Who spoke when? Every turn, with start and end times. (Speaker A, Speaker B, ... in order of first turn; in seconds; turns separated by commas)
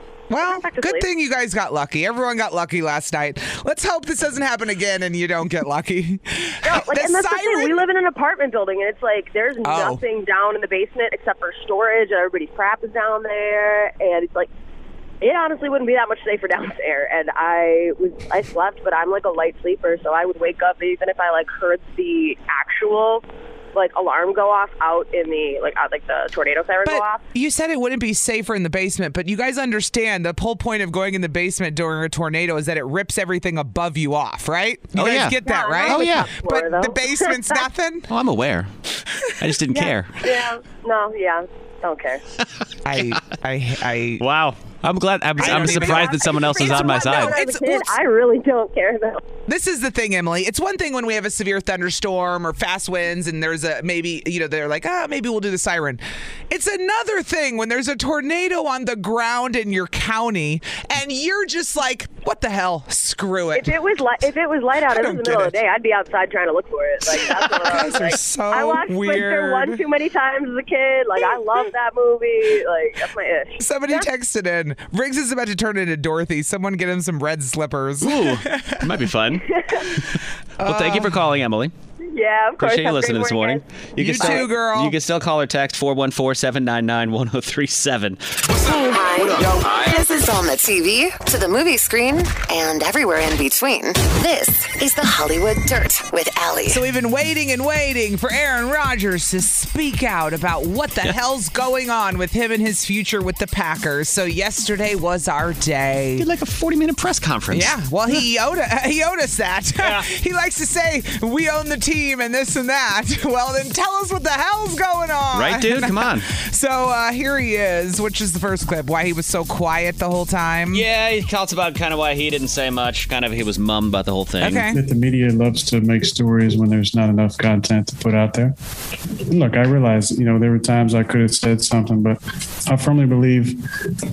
Speaker A: 0.3-7.8, Speaker B: 0.4-1.1, Speaker B: 6.6-14.5, Speaker A: 9.6-10.0, Speaker B: 15.2-27.2, Speaker A: 26.9-38.1, Speaker C: 35.0-36.3, Speaker B: 35.4-37.6, Speaker C: 38.1-38.7, Speaker C: 39.4-40.3, Speaker B: 39.7-42.2, Speaker A: 42.9-44.2, Speaker C: 44.2-47.4, Speaker A: 45.4-47.9, Speaker B: 45.4-49.2, Speaker A: 49.5-63.8, Speaker B: 63.5-74.1, Speaker A: 64.9-65.6, Speaker A: 67.1-69.8, Speaker A: 73.6-78.8, Speaker C: 78.0-81.7, Speaker B: 79.5-79.8, Speaker A: 80.6-81.2, Speaker B: 82.1-83.6, Speaker C: 82.6-88.5, Speaker A: 84.0-85.0, Speaker D: 88.6-96.8, Speaker B: 88.8-89.4, Speaker A: 96.7-106.2, Speaker C: 106.2-108.2, Speaker A: 107.5-120.8, Speaker C: 109.8-110.1, Speaker C: 115.3-116.3, Speaker C: 120.7-124.7, Speaker A: 124.4-124.8, Speaker E: 124.7-128.5, Speaker E: 129.3-133.6